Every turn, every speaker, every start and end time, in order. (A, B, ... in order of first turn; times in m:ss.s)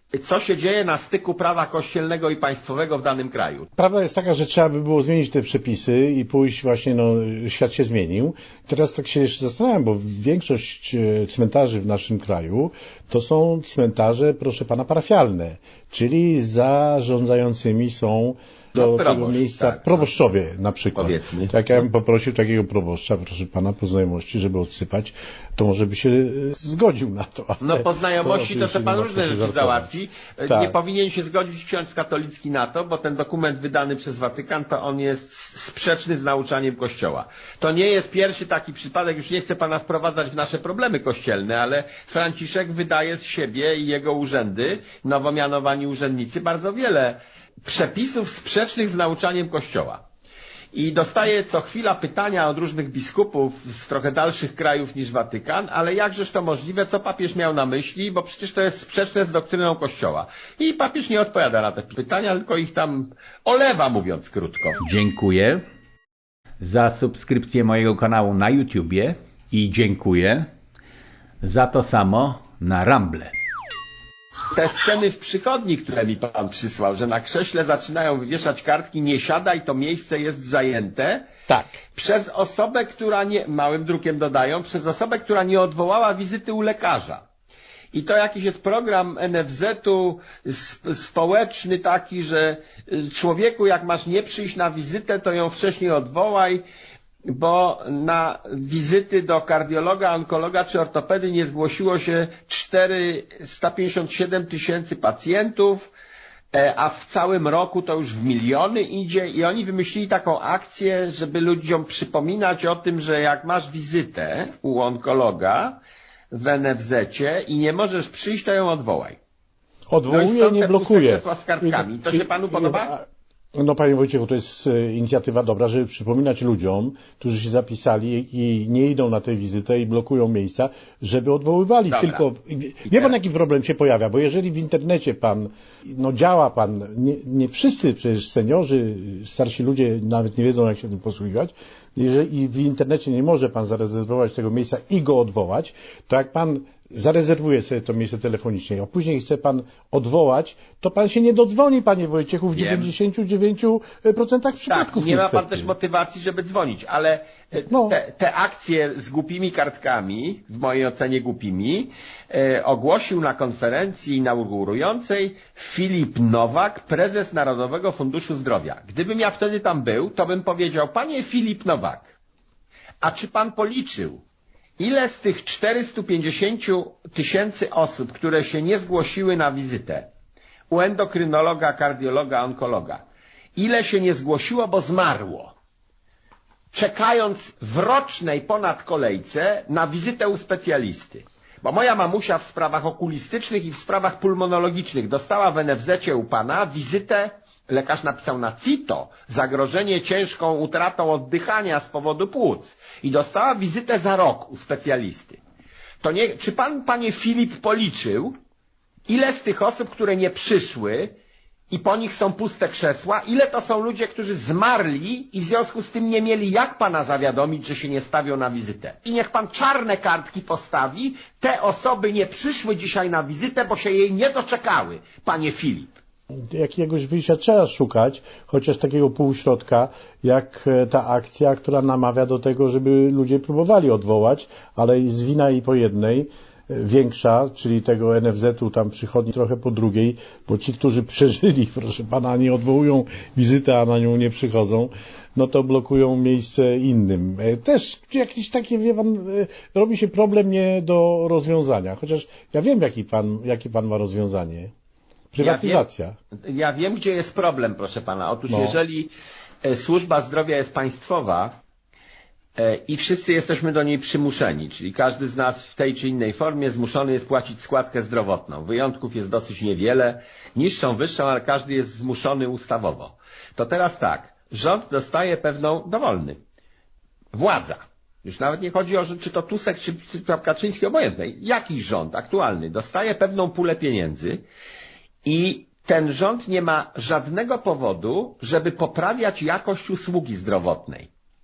0:00.1-0:03.7 A
0:03.8-0:29.9 B
0:18.7-0:20.1 A
0:20.9-0:21.5 A
0:27.6-0:50.0 A
0:30.5-0:30.8 B
0:50.7-1:04.9 A
1:04.8-1:05.6 C
1:06.6-1:10.5 C
1:11.4-1:13.3 C
1:14.5-1:21.3 A
1:21.9-1:27.2 A
1:27.9-1:36.6 A
1:37.3-1:45.9 A
1:46.5-1:55.8 A
1:56.3-1:59.2 A
1:59.9-2:35.7 B
2:00.1-2:02.9 A
2:11.9-2:12.2 A
2:12.8-2:13.2 A
2:32.5-2:32.9 A
2:34.7-2:52.2 A
2:37.7-2:38.0 B
2:53.0-2:54.2 A
2:54.8-3:00.1 A
3:00.7-3:03.0 A
3:03.6-3:05.5 A
3:06.7-3:25.4 A
3:26.0-3:28.3 A
3:29.1-3:31.2 A
3:31.7-3:45.9 A
3:46.5-4:14.7 B
4:15.3-4:16.1 B
4:15.4-4:15.8 A
4:16.4-4:19.1 A
4:18.5-4:18.8 B
4:19.6-4:21.5 A
4:22.6-4:36.4 A
4:37.3-4:44.4 A
4:45.2-4:51.1 A